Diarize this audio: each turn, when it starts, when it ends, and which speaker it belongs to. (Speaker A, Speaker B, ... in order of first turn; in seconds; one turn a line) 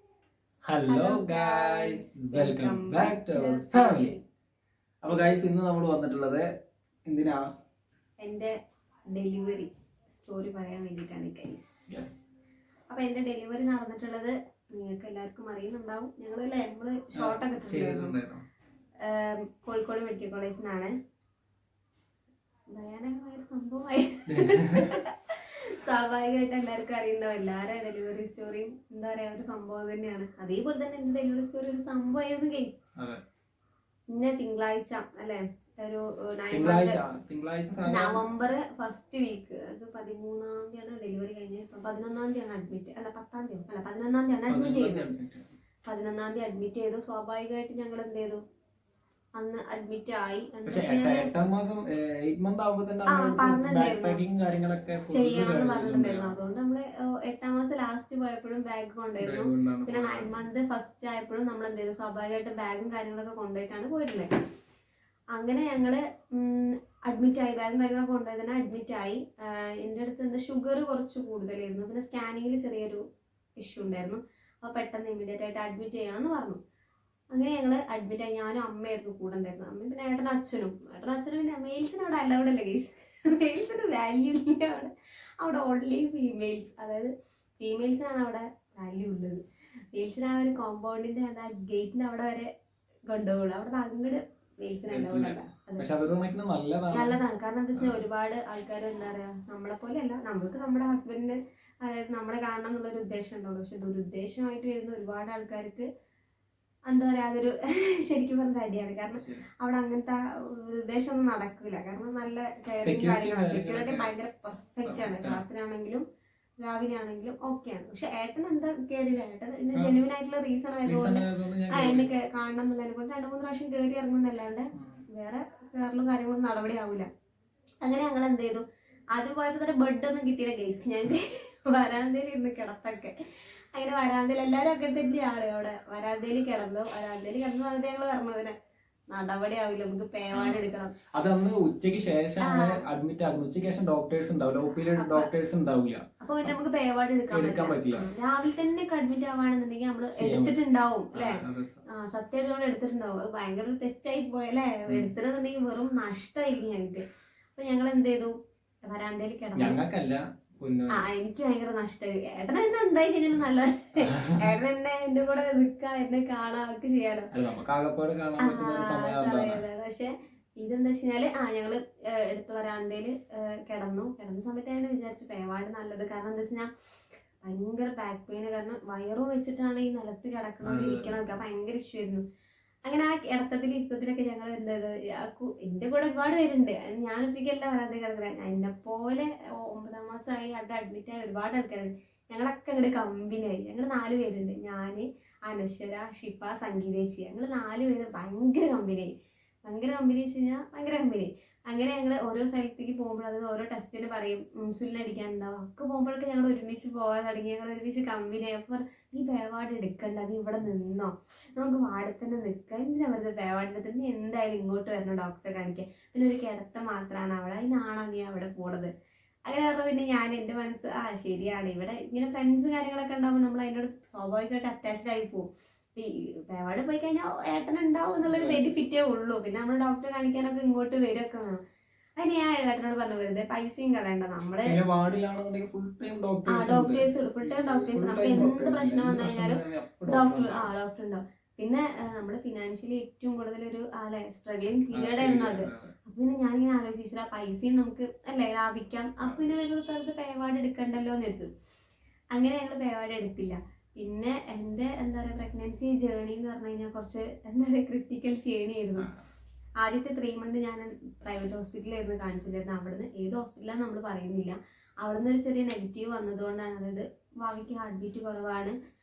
Speaker A: 0.7-4.1
Speaker B: 0.9-4.2
Speaker A: 5.0-6.5
Speaker A: 7.1-7.5
Speaker B: 8.2-8.5
Speaker B: 9.1-11.9
Speaker B: 12.9-18.1
Speaker A: 17.2-18.4
Speaker B: 19.0-20.9
Speaker B: 22.7-32.8
Speaker A: 24.3-24.9
Speaker B: 34.1-37.0
Speaker A: 36.5-38.3
Speaker B: 37.9-45.0
Speaker A: 44.5-45.5
Speaker B: 45.9-48.4
Speaker B: 49.4-51.3
Speaker A: 50.7-56.4
Speaker B: 53.1-54.2
Speaker B: 55.1-64.3
Speaker A: 59.2-60.4
Speaker B: 65.3-73.0
Speaker B: 73.6-76.6
Speaker B: 77.3-87.1
Speaker B: 87.6-89.4
Speaker B: 89.9-92.5
Speaker B: 93.1-95.9
Speaker A: 94.9-97.2
Speaker B: 96.9-105.9
Speaker B: 106.9-116.0
Speaker A: 109.1-109.5
Speaker A: 112.8-114.1
Speaker A: 114.8-115.4
Speaker B: 116.6-127.1
Speaker A: 120.8-122.1
Speaker A: 124.8-125.0
Speaker B: 127.8-133.1
Speaker B: 133.8-138.5
Speaker B: 139.1-140.9
Speaker A: 140.3-140.6
Speaker A: 141.1-146.5
Speaker B: 142.4-142.8
Speaker B: 144.9-145.3
Speaker B: 146.2-157.0
Speaker A: 147.3-148.1
Speaker A: 150.2-150.6
Speaker A: 151.1-151.8
Speaker B: 157.6-158.3
Speaker B: 158.9-159.8
Speaker A: 159.6-161.0
Speaker B: 160.9-167.3
Speaker A: 164.1-164.4
Speaker A: 167.3-169.6
Speaker B: 168.4-176.7
Speaker B: 177.4-182.2
Speaker A: 180.7-181.3
Speaker B: 182.9-199.1
Speaker B: 199.7-218.9
Speaker B: 219.5-231.6
Speaker A: 228.2-228.6
Speaker B: 232.2-234.8
Speaker A: 234.6-240.7
Speaker B: 236.5-251.5
Speaker A: 244.9-245.9
Speaker B: 252.3-259.1
Speaker A: 259.0-259.2
Speaker B: 259.8-268.8